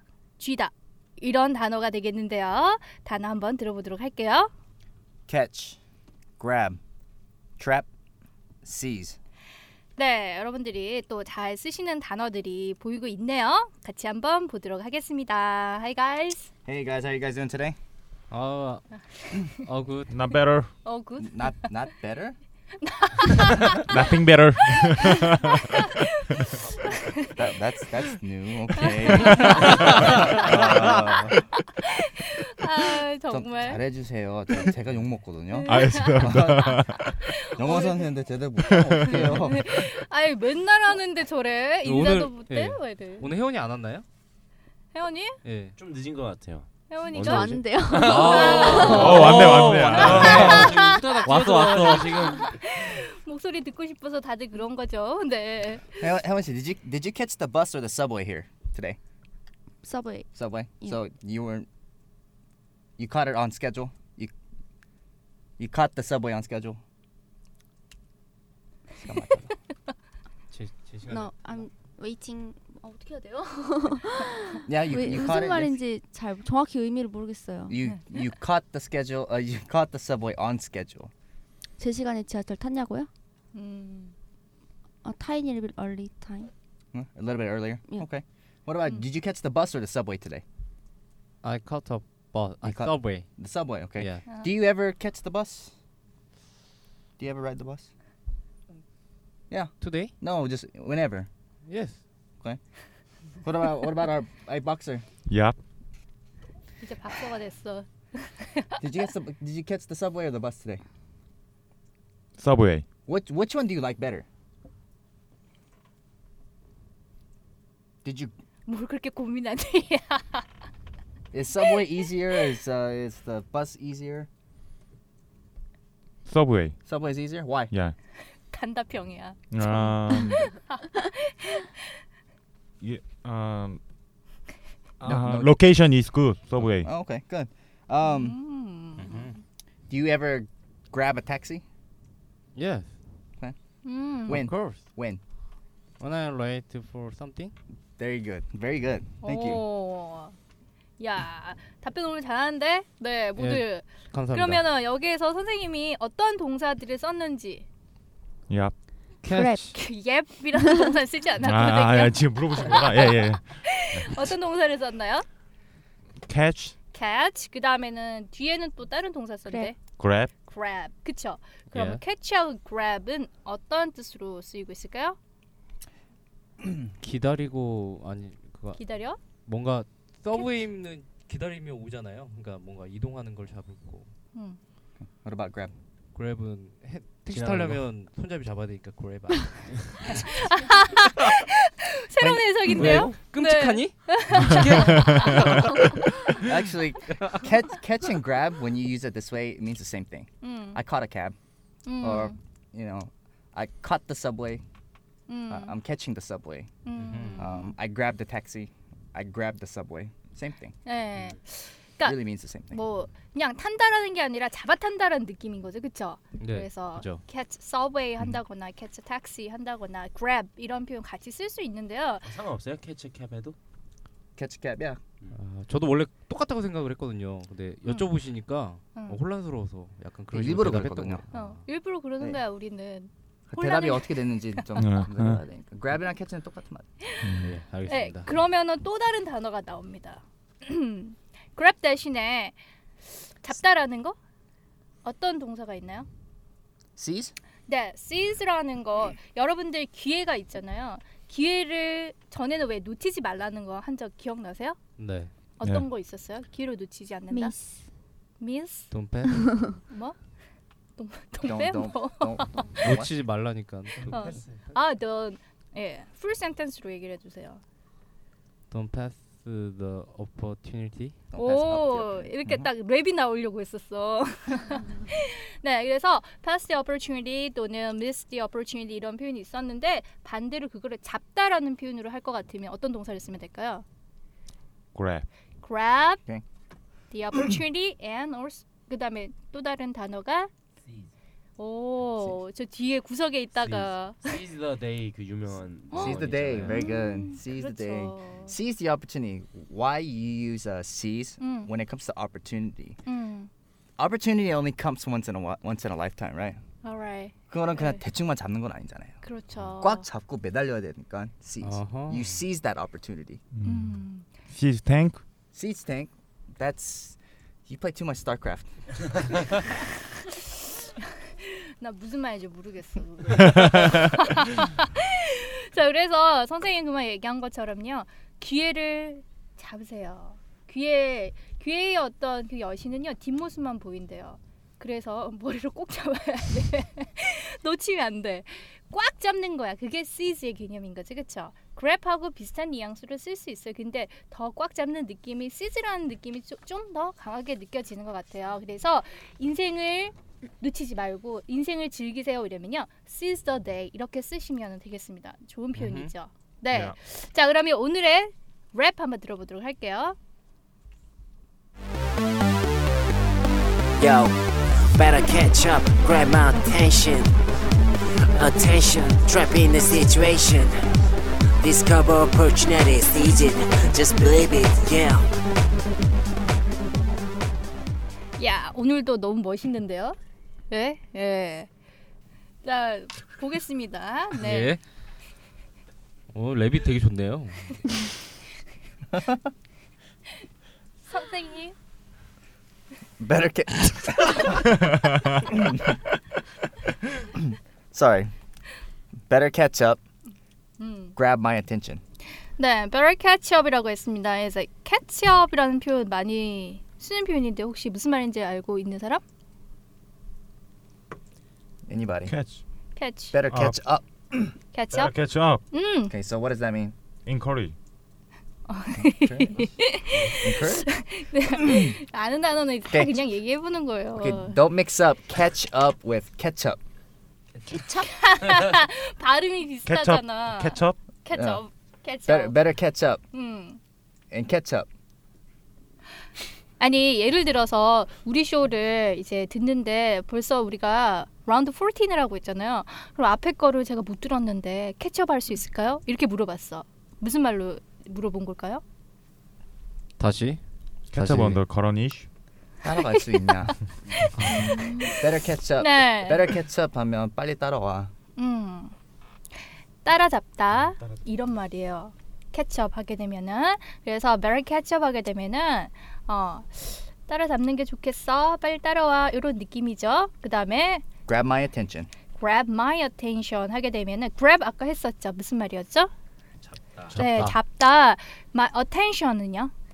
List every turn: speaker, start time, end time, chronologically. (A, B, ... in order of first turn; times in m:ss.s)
0:00.4-0:04.5 A
0:05.3-0:05.8 B
0:06.4-0:06.8 B
0:07.6-0:07.9 B
0:08.6-0:09.2 B
0:10.0-0:16.5 A
0:16.7-0:17.8 B
0:18.3-0:20.1 C
0:20.1-0:20.7 D
0:20.8-0:21.6 A
0:21.2-0:22.4 B
0:22.8-0:24.0 A
0:23.8-0:25.6 D
0:26.4-0:27.2 A
0:26.7-0:27.4 E
0:27.4-0:31.4 B
0:28.8-0:33.8 A
0:33.3-0:36.8 B
0:35.5-0:38.1 A
0:35.7-0:37.3 D
0:37.6-0:39.7 B
0:38.9-0:39.2 D
0:39.0-0:43.3 A
0:41.8-0:44.0 C
0:44.9-0:45.4 A
0:45.4-0:45.7 C
0:45.8-0:52.5 E
0:46.9-0:49.3 A
0:47.3-0:48.9 F
0:48.0-0:52.4 C
0:48.9-0:50.7 D
0:50.1-0:51.2 A
0:52.0-0:56.0 A
0:56.0-0:59.0 B
0:59.8-1:01.0 F
1:00.4-1:01.7 B
1:03.0-1:04.3 B
1:05.6-1:06.8 B
1:09.0-1:09.5 B
1:10.5-1:11.7 C
1:11.1-1:12.8 F
1:12.8-1:13.7 A
1:13.5-1:17.8 F
1:14.7-1:15.8 B
1:17.7-1:21.1 B
1:21.8-1:23.1 F
1:23.5-1:24.2 A
1:25.0-1:26.5 F
1:26.9-1:30.4 B
1:31.4-1:34.2 C
1:32.6-1:35.8 B
1:34.3-1:34.5 A
1:37.2-1:37.9 B
1:39.5-1:41.3 B
1:39.8-1:40.1 C
1:41.7-1:42.0 C
1:43.4-1:45.0 B
1:45.3-1:45.6 D
1:46.8-1:48.7 A
1:48.8-1:50.8 B
1:52.4-1:52.9 D
1:53.1-1:54.3 B
1:58.0-1:58.3 B
1:58.7-2:00.4 A
2:01.3-2:04.3 B
2:06.3-2:06.8 D
2:06.9-2:07.7 B
2:08.4-2:11.7 A
2:09.5-2:10.5 D
2:12.8-2:13.8 D
2:15.0-2:16.9 D
2:15.0-2:15.7 B
2:16.8-2:18.4 B
2:18.0-2:19.3 A
2:19.0-2:19.4 C
2:19.9-2:21.6 B
2:22.6-2:23.2 C
2:23.4-2:25.2 B
2:23.8-2:24.4 A
2:24.3-2:24.9 C
2:26.0-2:27.6 C
2:28.0-2:29.6 B
2:29.2-2:30.4 A
2:31.0-2:37.6 A
2:33.4-2:34.6 C
2:38.5-2:38.8 D
2:39.2-2:39.8 C
2:39.3-2:39.6 F
2:39.7-2:45.2 A
2:41.4-2:43.5 D
2:46.2-2:46.8 D
2:46.9-2:49.8 A
2:49.5-2:49.7 F
2:50.0-2:50.3 D
2:50.4-2:55.2 A
2:51.7-2:52.0 C
2:57.0-2:58.8 C
2:58.8-2:59.2 A
2:59.5-3:04.1 C
3:04.3-3:04.6 A
3:05.1-3:05.7 B
3:06.1-3:10.2 C
3:07.3-3:07.8 E
3:10.1-3:15.8 A
3:12.2-3:12.7 B
3:12.8-3:13.2 E
3:12.8-3:15.8 C
3:16.3-3:21.4 B
3:17.2-3:17.4 C
3:20.4-3:20.8 A
3:21.8-3:22.4 A
3:22.0-3:24.6 B
3:25.3-3:25.7 A
3:25.5-3:30.8 B
3:26.8-3:27.7 A
3:27.0-3:27.5 C
3:30.8-3:32.2 A
3:32.0-3:32.8 B
3:32.7-3:42.3 A
3:36.4-3:37.2 C
3:42.2-3:43.6 E
3:44.4-3:45.0 B
3:45.3-3:51.7 C
3:47.8-3:48.1 A
3:49.0-3:49.2 A
3:50.3-3:51.2 B
3:51.3-3:54.6 A
3:53.5-3:56.9 B
3:54.8-3:55.4 D
3:57.0-4:02.6 A
3:57.2-3:57.6 D
3:57.4-3:58.3 C
4:03.1-4:04.2 A
4:05.0-4:06.1 A
4:07.0-4:07.3 B
4:07.7-4:14.8 A
4:15.0-4:15.3 C
4:15.6-4:17.6 A
4:17.3-4:17.9 F
4:18.4-4:20.2 A
4:18.9-4:19.5 C
4:21.0-4:22.8 A
4:21.4-4:23.1 B
4:22.8-4:24.4 C
4:24.0-4:27.6 A
4:24.1-4:24.5 E
4:28.7-4:31.3 C
4:31.3-4:32.7 B
4:31.4-4:43.8 A
4:45.0-4:45.2 D
4:45.6-4:46.2 A
4:47.1-4:50.5 A
4:51.6-4:54.3 A
4:53.6-4:56.8 E
4:55.9-4:58.5 A
4:55.9-5:03.0 B
5:01.4-5:01.7 A
5:03.1-5:03.5 A
5:04.0-5:06.6 B
5:06.8-5:08.0 A
5:07.5-5:13.4 B
5:09.2-5:10.1 A
5:11.6-5:12.4 C
5:13.5-5:15.2 D
5:13.6-5:14.3 A
5:15.5-5:18.7 B
5:21.4-6:00.2 A
5:55.8-5:56.1 C
6:05.0-6:07.2 G
6:08.4-6:10.7 G
6:11.6-6:15.2 G
6:18.4-6:20.2 A
6:20.7-6:21.7 A
6:22.6-6:24.7 A
6:24.4-6:24.8 C
6:26.3-6:28.0 C
6:29.1-6:29.4 B
6:31.0-6:31.8 A
6:33.2-6:36.1 B
6:37.2-6:38.3 B
6:39.3-6:40.0 B
6:40.8-6:41.2 A
6:41.2-6:42.0 B
6:42.6-6:49.2 A
6:51.9-6:52.3 B
6:52.3-6:52.6 D
6:53.0-6:53.4 A
6:53.3-6:54.6 B
6:53.5-6:53.8 D
6:54.7-6:55.1 A
6:54.9-6:55.6 D
6:55.7-6:56.1 A
6:56.1-6:56.9 B
6:57.3-6:57.7 D
6:58.7-7:04.6 A
6:59.0-6:59.7 B
7:00.2-7:00.9 B
7:01.7-7:01.9 B
7:02.9-7:03.2 B
7:04.2-7:06.8 B
7:07.8-7:12.6 A
7:09.9-7:11.0 D
7:11.3-7:11.6 B
7:12.3-7:13.2 B
7:13.3-7:13.8 A
7:14.3-7:14.9 B
7:16.8-7:28.8 A
7:30.2-7:30.6 C
7:31.1-7:32.3 D
7:31.2-7:31.6 C
7:32.8-7:33.8 B
7:33.2-7:33.7 A
7:34.4-7:34.9 C
7:34.5-7:35.2 A
7:35.0-7:38.1 B
7:35.8-7:36.4 A
7:38.4-7:38.9 A
7:40.0-7:51.0 A
7:51.3-7:52.1 B
7:52.4-7:56.1 A
7:56.6-7:57.5 E
7:57.1-7:57.6 C
7:57.2-7:59.7 A